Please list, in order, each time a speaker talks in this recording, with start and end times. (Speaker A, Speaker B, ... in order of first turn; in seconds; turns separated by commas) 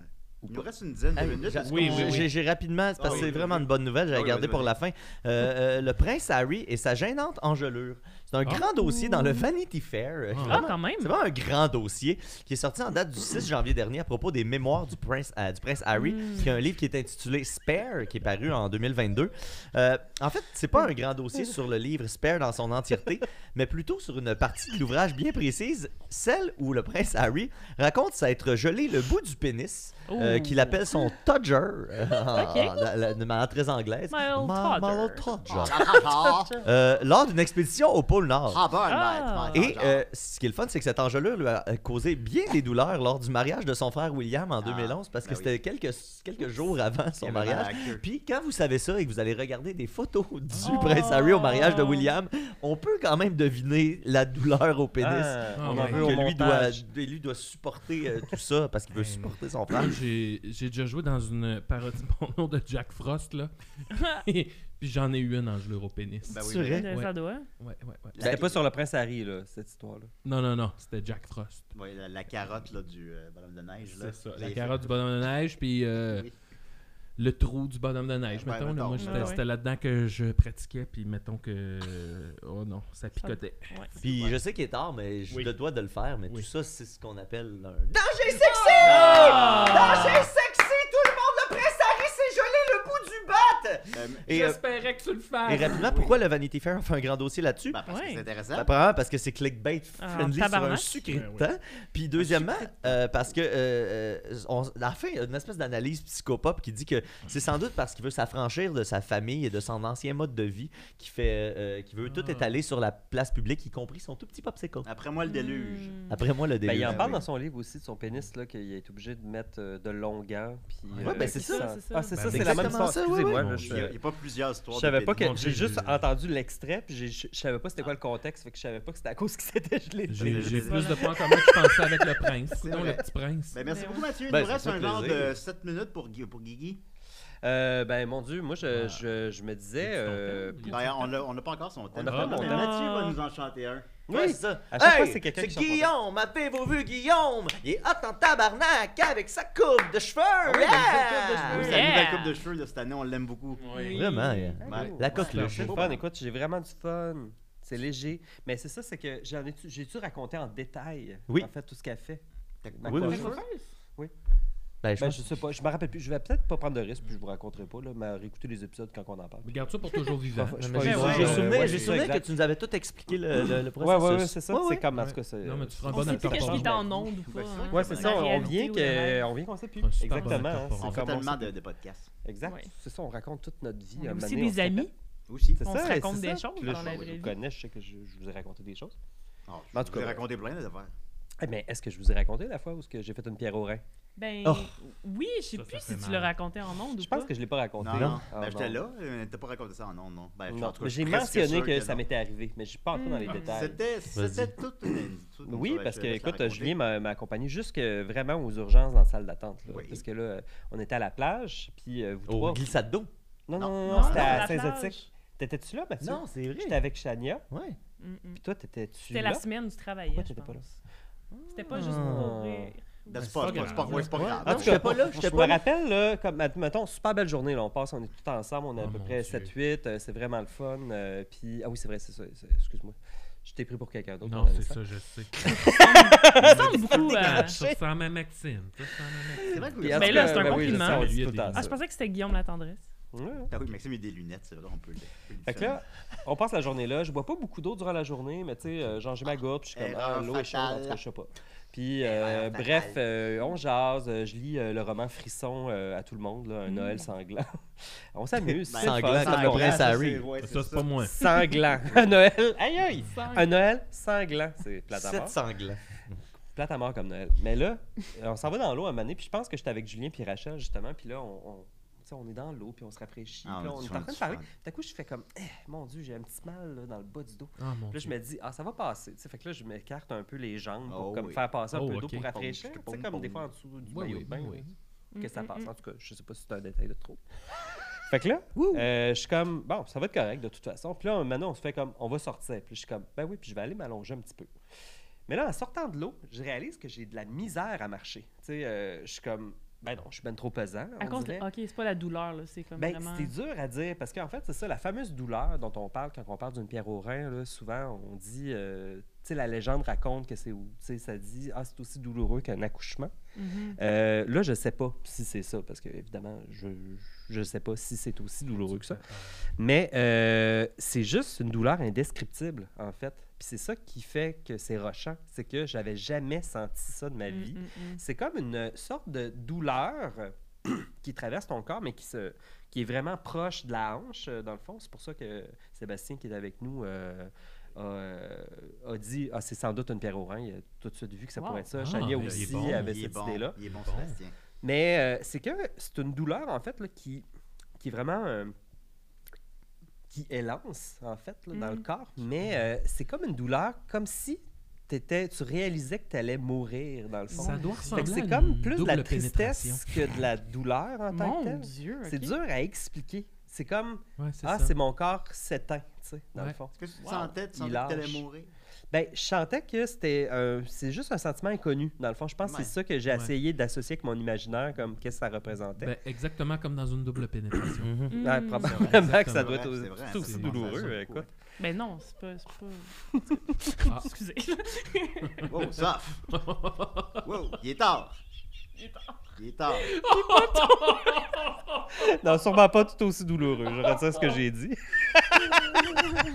Speaker A: 0.4-0.7, Speaker B: 0.5-2.3, Speaker C: 1.2-36.0, Speaker D: 1.6-2.3, Speaker B: 3.0-3.7, Speaker A: 3.1-3.5, Speaker A: 4.1-4.7, Speaker E: 8.5-9.5, Speaker D: 10.3-10.7, Speaker E: 10.4-11.1, Speaker E: 15.9-16.5, Speaker E: 30.1-31.1, Speaker E: 32.2-32.9, Speaker E: 34.1-35.3, Speaker B: 35.5-36.6, Speaker C: 36.6-38.6, Speaker B: 38.5-40.0, Speaker E: 38.9-39.7, Speaker C: 39.5-60.0, Speaker B: 44.6-45.5, Speaker B: 47.2-48.0, Speaker D: 50.5-51.0, Speaker E: 50.6-52.1, Speaker A: 55.0-56.8, Speaker D: 55.6-56.2, Speaker D: 58.9-68.2, Speaker E: 63.9-64.2, Speaker B: 66.3-66.9, Speaker C: 66.3-66.9, Speaker E: 66.7-67.5, Speaker B: 68.1-68.7, Speaker C: 68.2-68.5, Speaker A: 68.2-70.1, Speaker D: 70.2-71.7, Speaker B: 71.7-74.9, Speaker D: 73.8-76.3, Speaker B: 76.0-76.3, Speaker D: 77.2-83.8, Speaker B: 78.3-79.3, Speaker E: 79.0-79.4, Speaker E: 83.2-83.9, Speaker B: 83.9-84.4, Speaker C: 84.0-94.6, Speaker D: 85.3-85.5, Speaker E: 88.8-90.3, Speaker B: 88.8-90.3, Speaker D: 89.2-89.9, Speaker B: 93.9-94.4, Speaker D: 94.3-96.1, Speaker C: 95.5-97.8, Speaker B: 95.7-96.2, Speaker B: 97.7-98.7, Speaker E: 97.9-98.2, Speaker C: 98.5-114.9, Speaker E: 100.0-101.0, Speaker D: 101.1-101.5, Speaker B: 102.2-102.9, Speaker D: 112.0-112.5, Speaker B: 114.8-116.1, Speaker E: 115.2-116.2, Speaker C: 116.1-117.2, Speaker A: 116.6-124.0, Speaker B: 116.8-117.2, Speaker D: 120.9-121.2, Speaker C: 121.0-121.7, Speaker E: 121.0-122.2, Speaker D: 122.1-123.8, Speaker C: 122.2-123.9, Speaker B: 123.7-125.4, Speaker A: 124.7-132.3, Speaker D: 125.2-126.1, Speaker D: 130.1-133.6, Speaker B: 130.2-131.4, Speaker E: 130.6-131.0, Speaker B: 132.5-136.8, Speaker E: 133.7-134.1, Speaker C: 134.3-135.4, Speaker A: 137.4-140.8, Speaker D: 138.7-139.1, Speaker D: 139.8-141.1, Speaker B: 140.7-143.9, Speaker A: 141.9-142.8, Speaker D: 142.1-142.6, Speaker E: 142.3-143.2, Speaker A: 144.1-145.9, Speaker C: 144.1-151.8, Speaker A: 150.5-151.8, Speaker B: 150.9-153.8, Speaker E: 151.5-152.4, Speaker D: 153.6-155.8, Speaker E: 153.7-154.5, Speaker C: 153.9-156.0, Speaker B: 154.6-156.0, Speaker A: 154.7-162.2, Speaker B: 162.6-163.4, Speaker A: 162.7-163.4, Speaker C: 162.9-163.4, Speaker D: 163.1-163.6, Speaker C: 164.8-165.2, Speaker A: 165.0-169.5, Speaker D: 169.4-172.1, Speaker A: 170.3-172.3, Speaker C: 170.8-174.8, Speaker E: 170.8-171.3, Speaker B: 170.9-171.5, Speaker A: 173.8-176.9, Speaker D: 174.9-176.8, Speaker E: 175.9-179.3, Speaker B: 176.1-178.6, Speaker A: 177.7-181.5, Speaker D: 179.8-181.3, Speaker B: 180.8-182.1, Speaker A: 182.2-184.9, Speaker E: 182.4-182.7, Speaker E: 184.0-184.9, Speaker B: 185.3-185.6, Speaker A: 185.6-189.0, Speaker E: 185.6-187.4, Speaker B: 186.6-187.1, Speaker B: 189.5-190.9, Speaker A: 189.7-190.2, Speaker A: 191.4-193.8, Speaker E: 194.2-197.3, Speaker D: 195.5-196.3, Speaker A: 197.0-198.8, Speaker B: 197.8-202.0, Speaker C: 197.9-198.2, Speaker A: 200.5-203.8, Speaker E: 202.9-203.6, Speaker B: 203.3-206.8, Speaker C: 204.1-204.6, Speaker A: 205.5-212.7, Speaker B: 209.7-210.0, Speaker C: 212.3-213.1, Speaker A: 213.5-217.5, Speaker B: 213.6-214.5, Speaker E: 213.8-215.0, Speaker C: 214.0-214.3, Speaker C: 216.0-216.8, Speaker C: 217.5-217.8, Speaker E: 218.0-218.4, Speaker A: 218.4-219.4, Speaker E: 219.1-220.7, Speaker A: 220.1-220.7, Speaker A: 221.3-222.7, Speaker E: 221.5-224.0, Speaker C: 221.7-222.3, Speaker B: 223.1-225.6, Speaker D: 223.2-224.6, Speaker A: 223.6-234.8, Speaker C: 224.1-225.6, Speaker D: 228.8-229.5, Speaker D: 234.2-235.6, Speaker A: 235.4-237.8, Speaker E: 235.4-237.6, Speaker D: 236.2-241.8, Speaker B: 239.4-240.8, Speaker A: 239.4-241.8, Speaker E: 239.9-242.8, Speaker A: 243.1-243.5, Speaker B: 243.5-245.8, Speaker A: 245.5-257.6, Speaker B: 249.8-251.0, Speaker B: 252.0-253.0, Speaker E: 256.7-257.1, Speaker A: 258.1-259.9, Speaker B: 258.7-261.1, Speaker C: 258.8-260.3, Speaker D: 260.4-261.2, Speaker A: 261.1-265.4, Speaker E: 263.1-263.5, Speaker C: 264.9-265.8, Speaker A: 266.6-284.7, Speaker B: 273.4-274.5, Speaker D: 277.6-278.1, Speaker B: 280.9-281.4, Speaker D: 281.7-282.3, Speaker B: 282.3-283.5, Speaker D: 283.9-284.7, Speaker E: 285.1-285.7, Speaker A: 285.2-287.2, Speaker A: 288.1-294.5, Speaker A: 295.3-301.5, Speaker E: 301.0-303.3, Speaker A: 302.8-313.1, Speaker E: 313.4-313.8, Speaker A: 313.8-319.0, Speaker D: 318.6-319.5, Speaker A: 319.6-343.6, Speaker E: 327.3-328.0, Speaker E: 341.4-341.7, Speaker D: 341.8-343.0, Speaker B: 342.2-344.3, Speaker D: 343.6-344.2, Speaker A: 344.6-347.2, Speaker A: 347.8-348.5, Speaker A: 350.1-368.2, Speaker E: 351.5-351.8, Speaker E: 357.3-358.1, Speaker D: 357.3-360.2, Speaker E: 361.1-362.4, Speaker D: 364.2-364.8, Speaker B: 366.8-368.5, Speaker E: 367.0-367.3, Speaker A: 368.9-375.9, Speaker B: 372.4-372.7, Speaker D: 373.1-373.3, Speaker D: 375.8-381.0, Speaker C: 377.8-378.1, Speaker E: 378.1-378.9, Speaker A: 378.2-381.2, Speaker B: 378.7-381.3, Speaker E: 381.6-382.9, Speaker E: 383.7-385.5, Speaker D: 383.8-384.1, Speaker D: 385.2-385.6, Speaker B: 385.5-386.3, Speaker D: 386.3-387.3, Speaker B: 387.2-388.2, Speaker E: 388.8-389.1, Speaker B: 389.4-390.0, Speaker D: 389.8-392.0, Speaker E: 390.0-391.2, Speaker A: 391.9-396.2